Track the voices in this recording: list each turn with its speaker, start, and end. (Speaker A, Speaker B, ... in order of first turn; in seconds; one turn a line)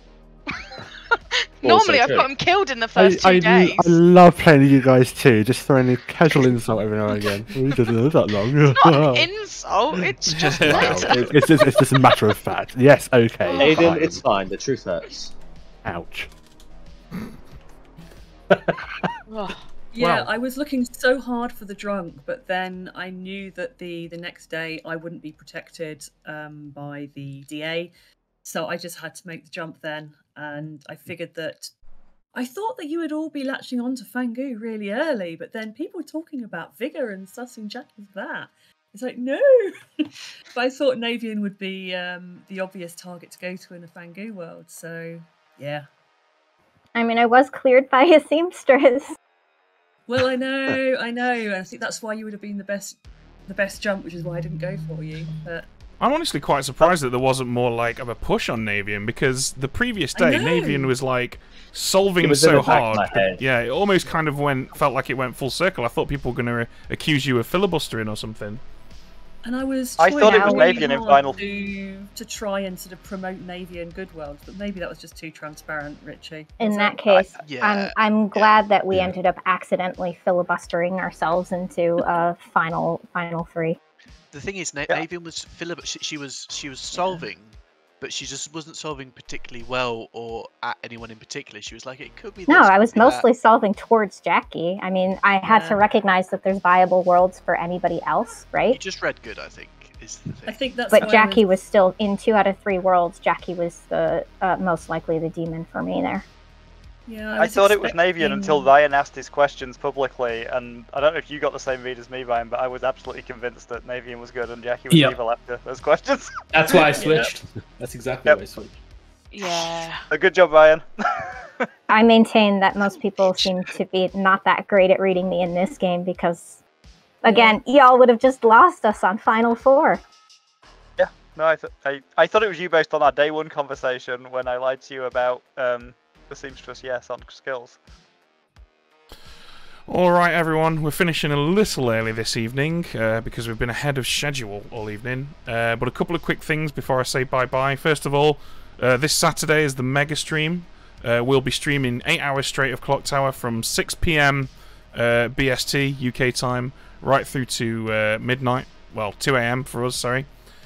Speaker A: 0.5-4.0
Speaker B: 1.6-2.3
Speaker C: 3.0-9.3
Speaker A: 7.1-7.8
Speaker A: 8.8-11.7
Speaker D: 10.3-11.1
Speaker C: 10.6-14.2
Speaker A: 13.5-13.8
Speaker B: 13.6-15.3
Speaker C: 15.8-16.3
Speaker C: 18.5-19.1
Speaker A: 19.3-19.6
Speaker E: 19.9-27.9
Speaker D: 20.0-20.3
Speaker E: 28.4-31.7
Speaker E: 32.3-45.9
Speaker F: 46.9-49.1
Speaker E: 50.1-55.7
Speaker D: 56.0-68.6
Speaker E: 60.1-60.9
Speaker B: 62.2-63.4
Speaker E: 69.4-77.2
Speaker G: 70.0-71.5
Speaker F: 70.1-70.9
Speaker F: 76.6-83.8
Speaker H: 77.4-78.6
Speaker H: 84.3-93.3
Speaker E: 86.9-87.2
Speaker F: 92.5-98.8
Speaker E: 95.5-95.8
Speaker H: 98.7-100.8
Speaker E: 100.5-101.5
Speaker F: 100.9-106.2
Speaker E: 107.1-108.7
Speaker G: 107.4-117.0
Speaker I: 114.9-115.2
Speaker I: 116.5-118.8
Speaker E: 116.9-117.3
Speaker A: 119.3-120.1
Speaker G: 119.6-121.3
Speaker F: 121.9-126.6
Speaker I: 123.2-123.5
Speaker F: 127.2-130.0
Speaker E: 127.3-127.6
Speaker G: 131.0-137.8
Speaker D: 139.9-160.3